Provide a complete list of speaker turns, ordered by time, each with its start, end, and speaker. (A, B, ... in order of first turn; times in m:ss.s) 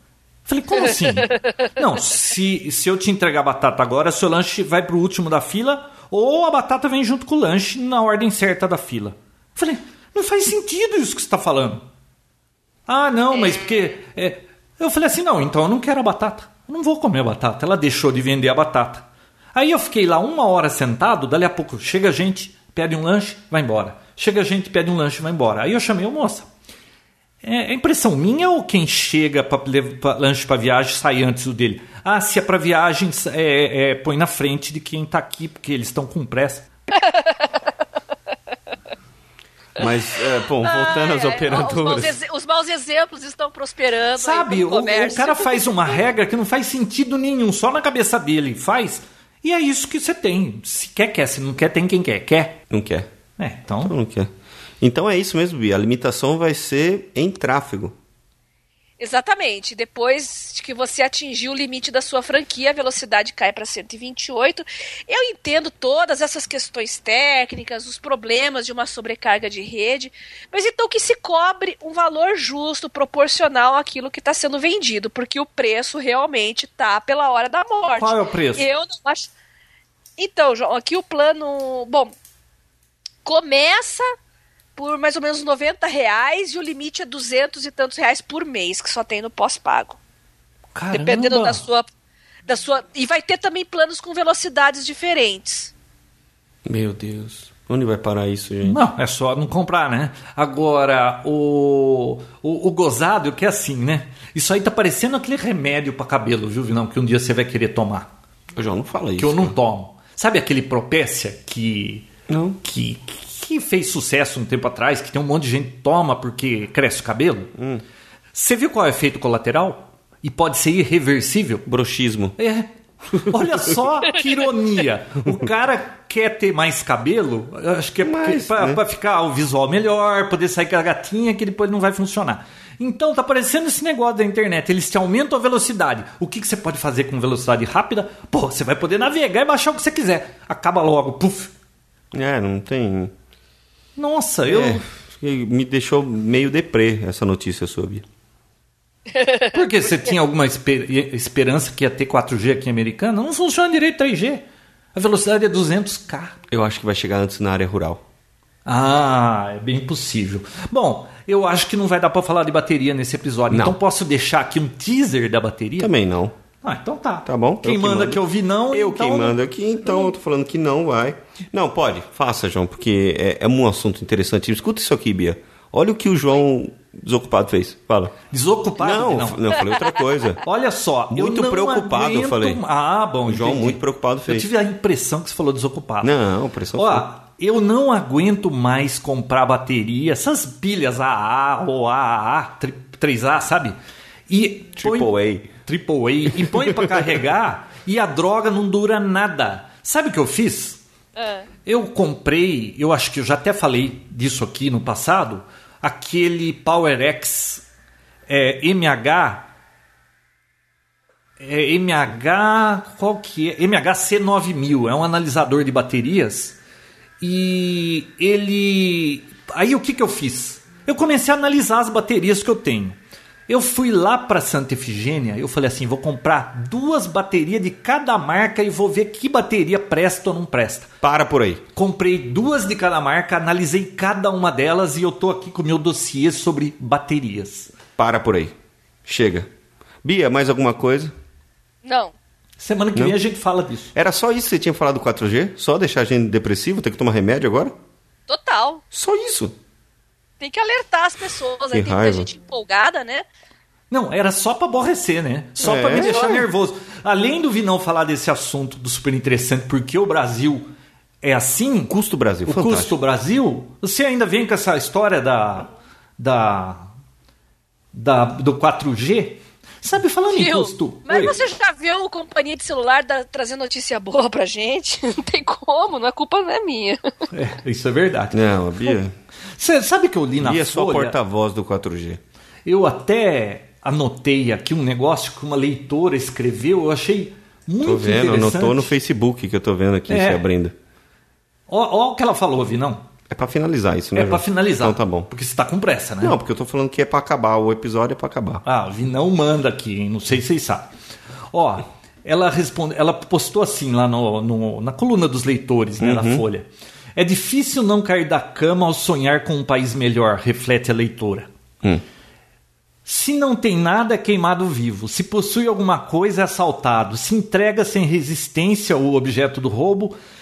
0:00.5-0:11.9 A
0:12.9-0:26.5 A
0:27.4-0:36.7 A
0:36.9-0:37.6 B
0:39.8-0:42.1 C
0:40.6-0:46.0 B
0:44.2-0:52.6 A
0:52.7-0:53.1 C
0:53.4-0:53.9 A
0:53.8-0:54.3 C
0:54.8-0:58.0 C
0:59.0-1:19.3 B
1:18.0-1:18.6 A
1:20.2-1:22.1 B
1:23.2-1:24.1 B
1:24.8-1:30.0 B
1:30.7-1:31.6 A
1:30.9-1:31.9 B
1:32.5-1:35.7 B
1:36.7-1:38.8 C
1:38.6-1:48.1 A
1:48.6-1:49.6 C
1:49.2-1:52.1 A
1:52.3-1:52.6 C
1:52.6-1:57.5 A
1:57.6-1:57.8 C
1:58.3-2:01.7 A
2:01.7-2:02.4 C
2:02.4-2:21.5 A
2:03.1-2:03.8 C
2:08.0-2:08.8 C
2:22.1-2:23.1 C
2:24.0-2:24.8 A
2:24.5-2:28.0 C
2:29.2-2:29.4 B
2:29.5-2:36.4 A
2:36.5-2:38.0 C
2:38.6-2:45.9 A
2:43.5-2:43.8 C
2:45.8-2:46.4 C
2:46.6-2:49.4 A
2:47.2-2:58.2 C
2:58.3-2:59.6 A
2:58.8-3:00.4 C
3:00.4-3:06.1 A
3:01.1-3:02.6 C
3:03.3-3:04.5 C
3:06.0-3:07.1 C
3:06.8-3:13.8 A
3:14.3-3:20.8 A
3:14.8-3:15.5 C
3:16.4-3:17.0 C
3:21.2-3:21.5 B
3:21.7-3:27.6 A
3:28.3-3:29.5 A
3:31.4-3:36.6 A
3:37.2-3:50.9 A
3:51.0-3:51.6 C
3:51.8-3:57.7 A
3:58.0-3:58.5 C
3:59.0-3:59.5 C
4:00.0-4:01.1 C
4:01.8-4:02.1 B
4:02.6-4:03.9 A
4:04.0-4:07.8 C
4:08.3-4:08.8 B
4:08.9-4:09.5 C
4:10.4-4:13.3 B
4:11.7-4:12.3 C
4:13.9-4:20.7 A
4:15.6-4:16.4 C
4:16.0-4:16.4 B
4:21.2-4:21.9 A
4:21.9-4:22.9 C
4:22.4-4:26.9 A
4:27.9-4:31.4 A
4:30.3-4:37.0 B
4:37.3-4:39.0 A
4:38.3-4:39.1 C
4:39.6-4:41.2 A
4:40.4-4:42.2 C
4:42.7-4:48.9 A
4:47.8-4:50.8 C
4:50.1-4:50.4 A
4:51.7-4:53.0 A
4:53.3-4:55.3 C
4:54.2-4:56.4 A
4:56.2-4:58.6 C
4:58.6-5:00.9 A
5:01.5-5:11.5 A
5:06.0-5:06.4 C
5:13.0-5:20.2 A